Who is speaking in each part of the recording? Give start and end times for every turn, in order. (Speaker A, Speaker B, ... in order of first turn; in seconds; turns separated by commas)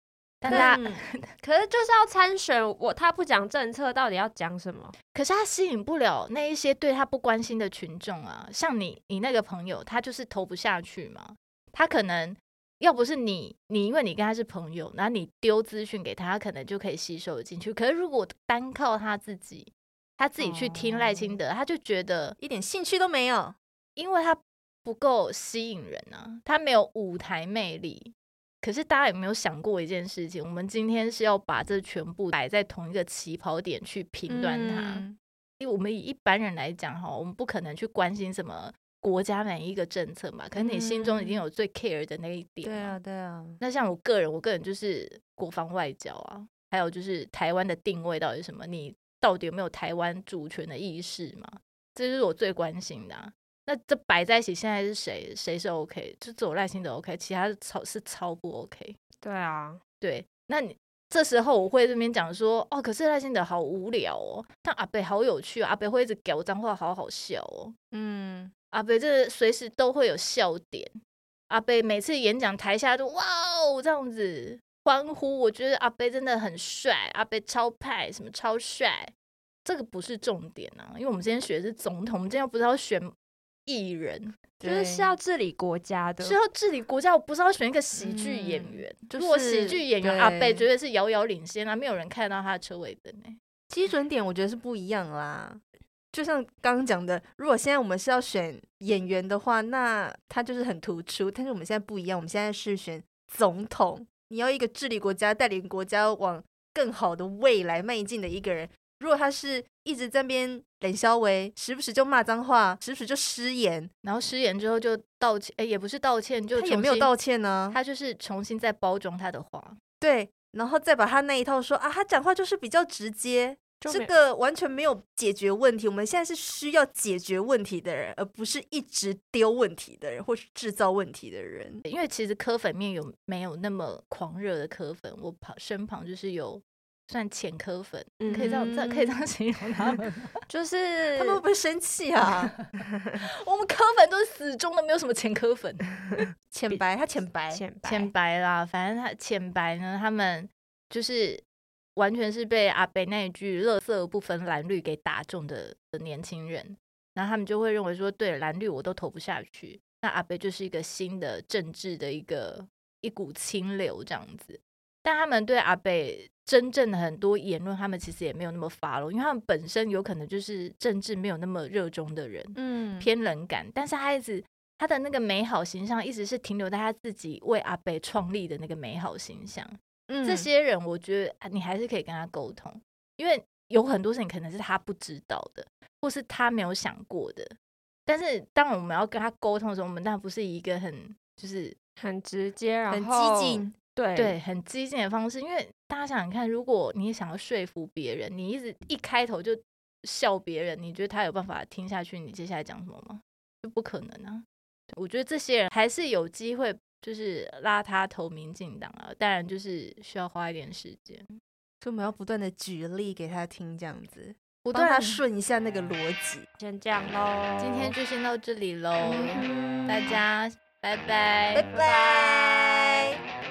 Speaker A: 0.4-1.2, Speaker B: 0.4-1.0, Speaker C: 0.5-0.8, Speaker C: 1.4-5.0, Speaker A: 5.1-22.4, Speaker B: 20.4-21.4, Speaker B: 22.4-23.6, Speaker A: 24.0-35.0, Speaker B: 34.3-35.2, Speaker A: 35.6-43.0, Speaker B: 40.5-41.4, Speaker B: 42.6-43.6, Speaker A: 43.6-59.0, Speaker C: 59.2-59.8, Speaker A: 60.0-67.8, Speaker B: 67.9-68.5, Speaker A: 68.7-70.9, Speaker A: 71.5-79.1, Speaker A: 79.7-83.1, Speaker A: 83.7-84.4, Speaker B: 84.6-85.1, Speaker C: 84.6-86.4, Speaker A: 86.2-93.4, Speaker B: 88.0-90.7, Speaker B: 93.7-95.6, Speaker B: 96.1-113.9, Speaker A: 114.0-117.1, Speaker B: 116.5-117.8, Speaker A: 117.7-119.8, Speaker B: 120.0-131.8, Speaker C: 123.8-124.1, Speaker A: 131.9-140.3, Speaker C: 138.2-139.1, Speaker B: 138.3-138.6, Speaker C: 140.5-141.4, Speaker B: 141.2-142.5, Speaker A: 143.4-146.3, Speaker B: 146.5-147.6, Speaker C: 147.5-148.1, Speaker A: 147.8-151.4, Speaker A: 152.0-187.5, Speaker B: 172.6-173.1, Speaker B: 180.1-180.5, Speaker A: 188.1-191.8, Speaker C: 192.0-194.4, Speaker B: 192.9-193.8, Speaker A: 194.2-211.3, Speaker B: 211.8-216.5, Speaker A: 214.7-215.2, Speaker C: 216.6-218.0, Speaker A: 217.6-221.7, Speaker B: 219.0-220.2, Speaker B: 221.5-223.2, Speaker C: 221.7-222.3